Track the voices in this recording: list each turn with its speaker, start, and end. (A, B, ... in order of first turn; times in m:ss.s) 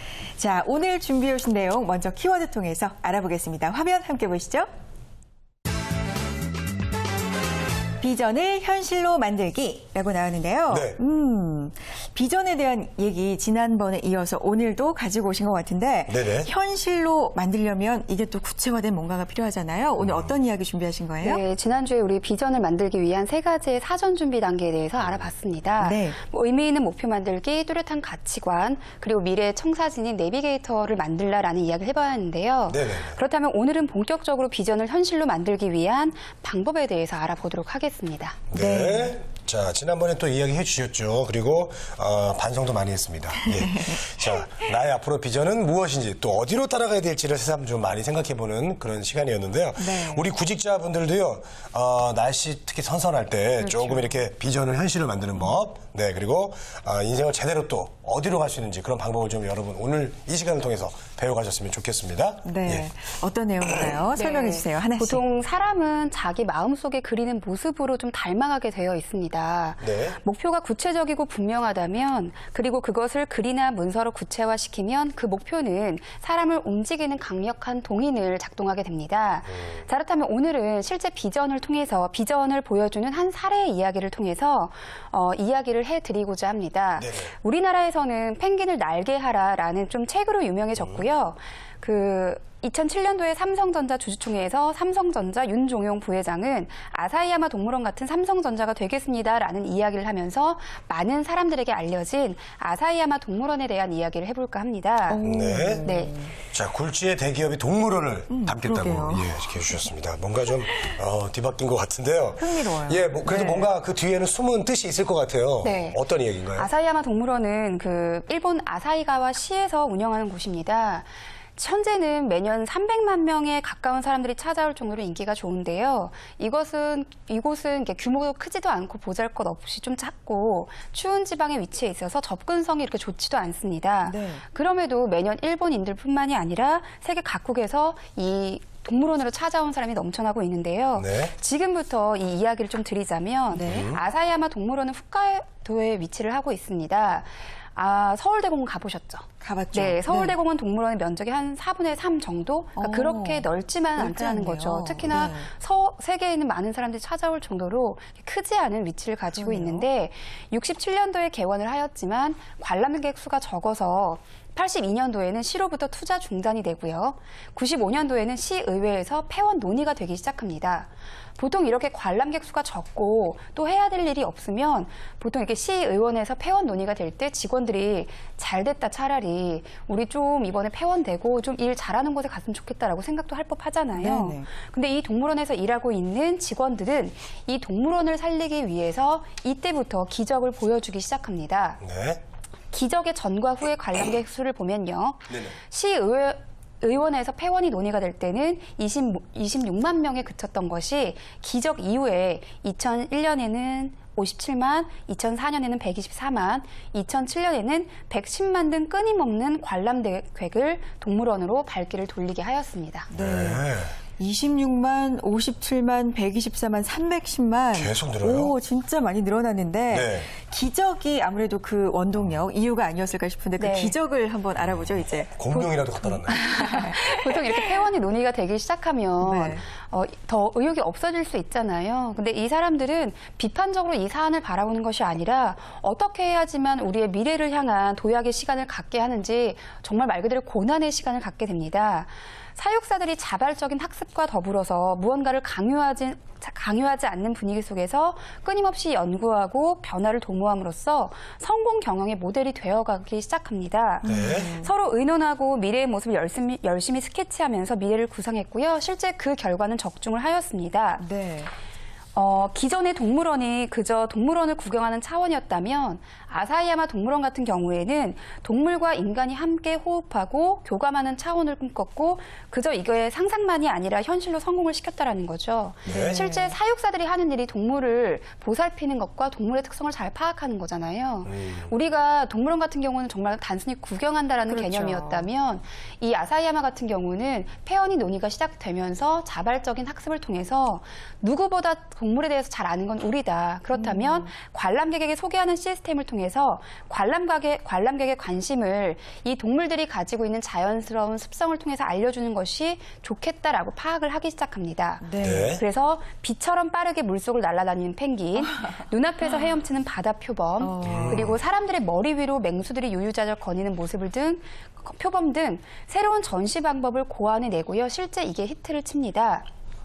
0:00.4-0:04.7 A
0:08.0-0:21.4 A
0:10.7-0:11.0 B
0:16.1-0:16.5 B
0:20.0-0:20.3 B
0:21.2-0:38.4 C
0:25.8-0:26.2 A
0:32.7-0:33.2 B
0:38.5-1:02.9 B
0:38.5-0:39.1 A
0:43.4-0:44.6 A
0:49.8-0:50.3 A
0:53.6-0:54.2 A
1:02.4-1:05.2 A
1:04.2-1:45.2 C
1:09.8-1:10.2 B
1:19.5-1:19.8 B
1:27.0-1:27.3 B
1:30.8-1:31.0 B
1:45.1-1:46.4 A
1:45.2-1:45.9 B
1:45.8-1:46.1 C
1:46.5-1:56.7 B
1:48.3-1:49.4 A
1:52.4-1:53.7 A
1:55.6-1:56.0 C
1:56.5-3:11.8 C
2:14.0-2:14.4 A
2:21.0-2:21.3 B
2:23.5-2:23.9 A
2:23.6-2:24.0 B
2:29.4-2:30.4 A
2:32.8-2:35.5 A
2:39.3-2:39.9 A
3:04.0-3:04.5 A
3:11.8-3:12.2 B
3:12.7-3:33.1 C
3:15.3-3:15.6 B
3:33.1-3:33.6 A
3:33.1-3:34.0 B
3:34.2-3:47.8 A
3:37.7-3:38.6 B
3:39.9-3:40.3 B
3:43.6-3:44.0 C
3:44.6-3:46.5 B
3:46.3-4:21.1 C
3:49.2-3:49.6 A
4:14.0-4:14.7 A
4:14.0-4:14.5 B
4:21.0-4:21.5 A
4:22.1-5:19.5 C
4:35.9-4:36.2 B
4:35.9-4:36.5 A
4:41.2-4:41.7 B
4:44.5-4:45.3 A
4:53.7-4:54.3 A
5:05.0-5:05.5 A
5:05.2-5:05.6 B
5:10.6-5:11.4 A
5:10.8-5:11.4 B